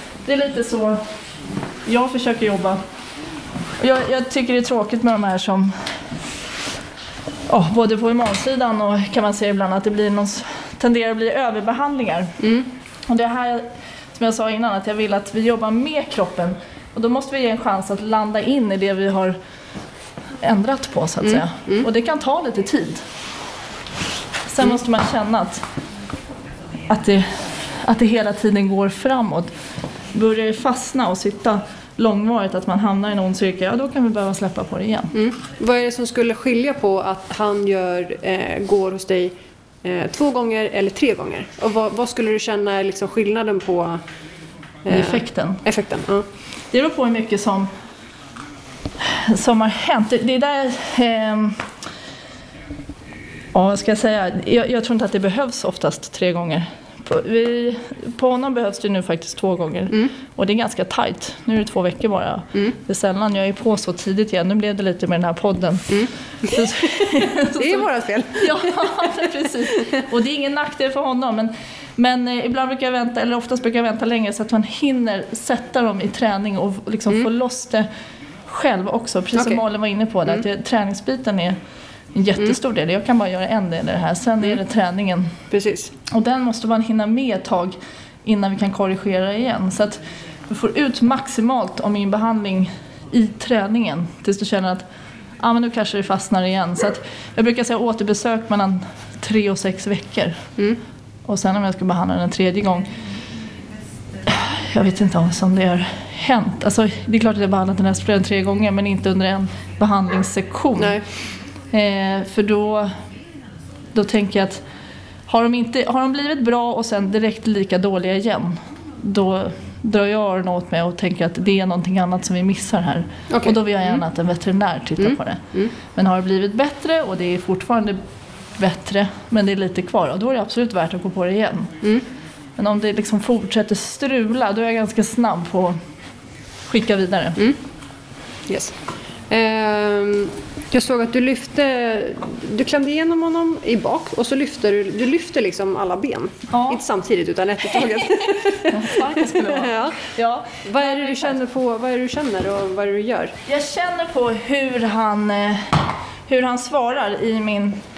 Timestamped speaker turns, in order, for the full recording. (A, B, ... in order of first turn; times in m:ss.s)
0:00.2-0:01.0 A
0:01.8-0:02.8 A
0:03.8-0:05.8 A
0:07.5-0:12.3 A
0:12.4-0:12.7 B
0:13.1-0:19.4 A
0:20.4-0:23.0 A
0:21.2-0:21.8 B
0:24.5-0:25.6 A
0:26.9-0:29.5 A
0:30.1-0:35.1 A
0:35.1-0:44.0 B
0:44.8-0:46.2 B
0:44.9-0:45.6 A
0:46.7-0:47.7 A
0:49.0-0:51.6 A
0:53.5-1:05.9 A
1:05.9-1:06.7 B
1:06.4-1:17.9 A
1:07.6-1:09.2 B
1:18.5-1:21.6 A
1:19.4-1:19.6 B
1:22.1-1:25.4 A
1:25.5-1:25.9 B
1:26.1-1:34.9 A
1:35.4-1:40.4 A
1:41.2-1:42.9 A
1:44.2-1:51.0 A
1:51.7-1:52.9 A
1:53.9-1:54.6 A
1:55.3-2:08.0 A
2:03.3-2:04.0 B
2:05.0-2:05.7 B
2:08.6-2:11.8 A
2:12.6-2:15.8 A
2:16.7-2:17.4 A
2:18.5-2:18.7 B
2:19.3-2:30.0 B
2:26.5-2:26.8 A
2:28.7-2:31.4 A
2:30.6-2:33.3 B
2:33.5-2:37.8 A